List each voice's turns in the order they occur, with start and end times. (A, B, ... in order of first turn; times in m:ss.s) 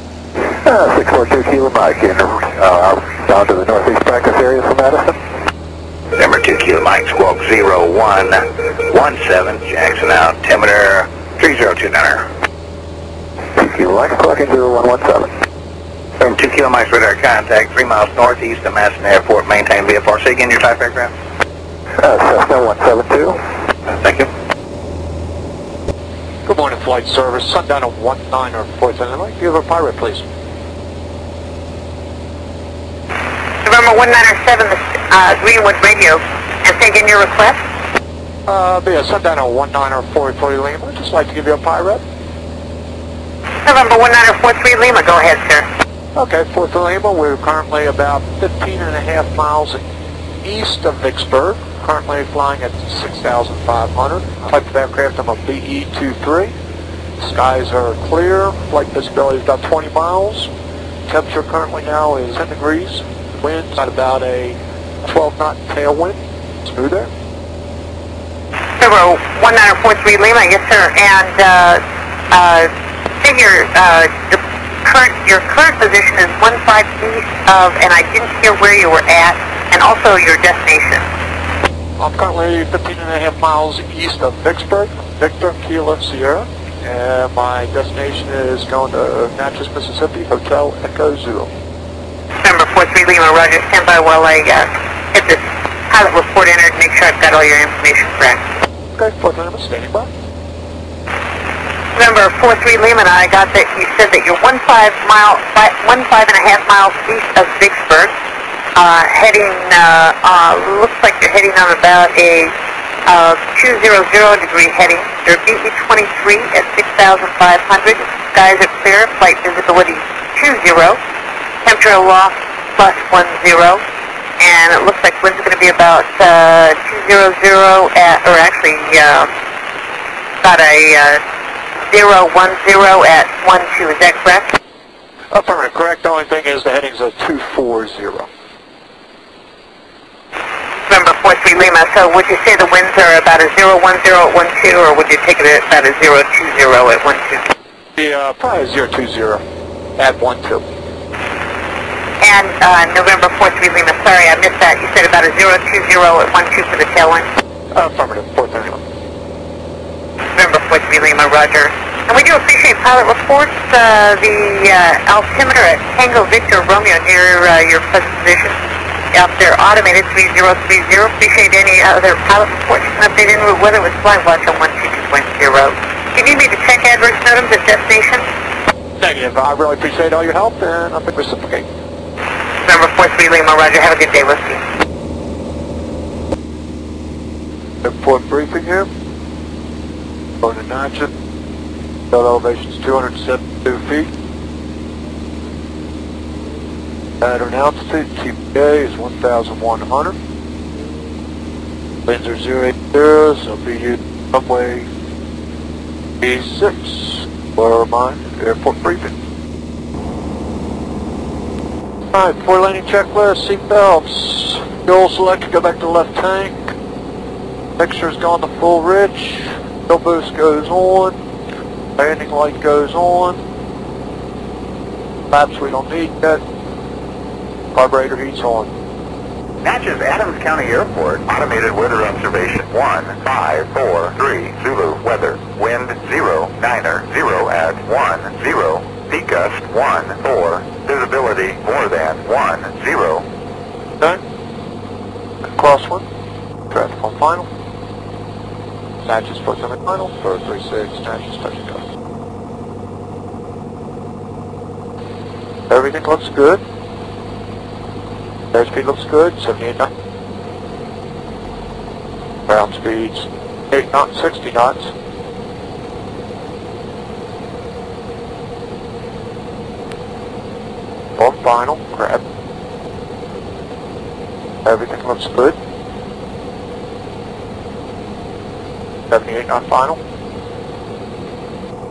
0:00.4-0:05.2 A
0:06.2-0:12.3 B
0:13.6-0:15.3 A
0:16.2-0:21.1 B
0:22.0-0:23.4 A
0:23.9-0:24.3 B
0:26.4-0:30.2 C
0:33.6-0:37.6 D
0:38.5-0:42.0 C
0:43.6-0:45.7 D
0:46.1-0:49.8 C
0:50.4-0:56.5 C
0:57.2-1:00.5 C
1:01.1-1:07.1 C
1:08.8-1:12.7 D
1:13.2-1:21.1 D
1:22.0-1:31.5 C
1:32.4-1:38.4 D
1:38.9-1:40.1 C
1:42.0-1:48.1 D
1:48.8-1:52.5 D
1:53.0-2:01.0 D
2:01.6-2:03.8 D
2:04.4-2:09.3 D
2:10.4-2:11.2 D
2:11.9-2:14.6 D
2:15.3-2:18.3 C
2:20.9-2:27.4 D
2:28.0-2:29.4 C
2:30.0-2:30.6 C
2:32.2-2:37.3 D
2:37.7-2:38.8 C
2:40.3-2:48.6 D
2:49.1-2:58.2 D
2:59.0-3:01.7 C
3:02.6-3:04.6 D
3:07.8-3:08.9 C
3:10.4-3:11.1 C
3:12.1-3:14.1 C
3:17.2-3:20.2 C
3:22.0-3:24.9 C
3:26.2-3:29.1 C
3:32.1-3:36.7 C
3:37.8-3:41.2 C
3:42.0-3:43.4 C
3:45.3-3:46.4 C
3:47.7-3:48.7 C
3:49.6-4:03.2 E
4:05.5-4:06.0 C
4:06.7-4:07.5 C
4:09.0-4:11.8 C
4:15.7-4:16.6 C
4:18.5-4:19.9 C
4:22.5-4:24.9 C
4:31.2-4:32.2 C
4:34.6-4:35.6 C
4:39.1-4:40.0 C